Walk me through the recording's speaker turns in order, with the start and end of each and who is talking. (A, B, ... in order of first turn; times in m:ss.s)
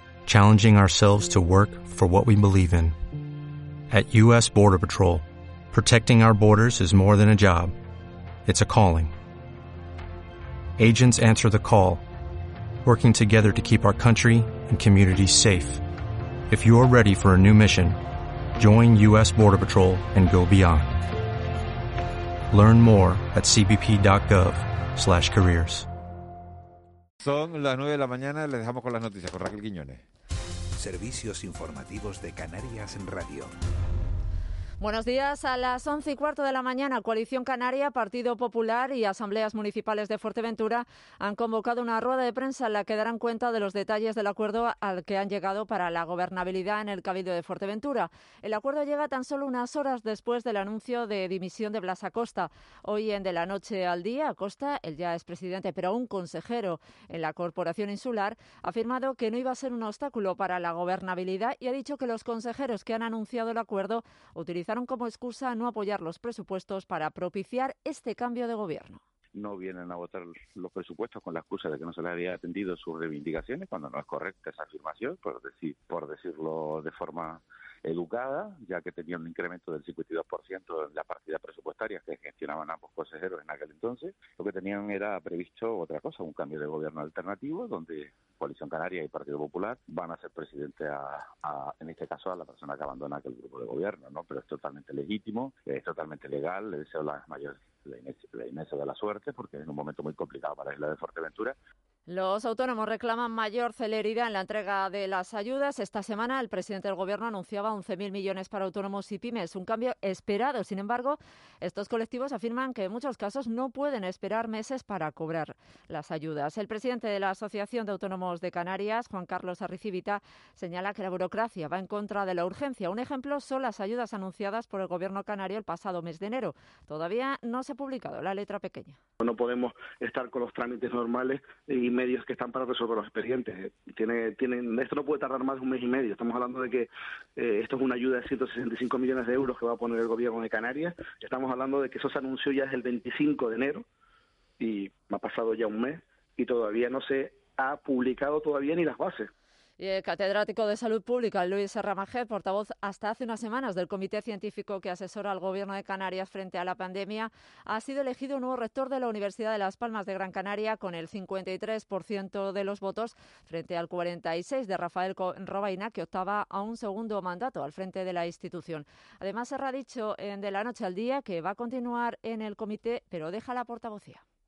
0:00.2-0:02.9 A
0:03.9-0:07.7 A
0:08.4-0:09.1 A
0:10.8-0:12.0 A
0:12.8-0:15.8 A
0:16.5-0:18.0 A
0:18.6-0:21.0 A
0:22.5-0:25.9 A
0:27.2-0:30.0 B
0:30.8-0:33.5 C
0:34.8-1:09.0 D
1:09.4-1:41.5 E
1:42.1-2:09.0 D
2:09.2-2:23.8 F
2:24.6-2:29.3 F
2:29.8-2:54.2 D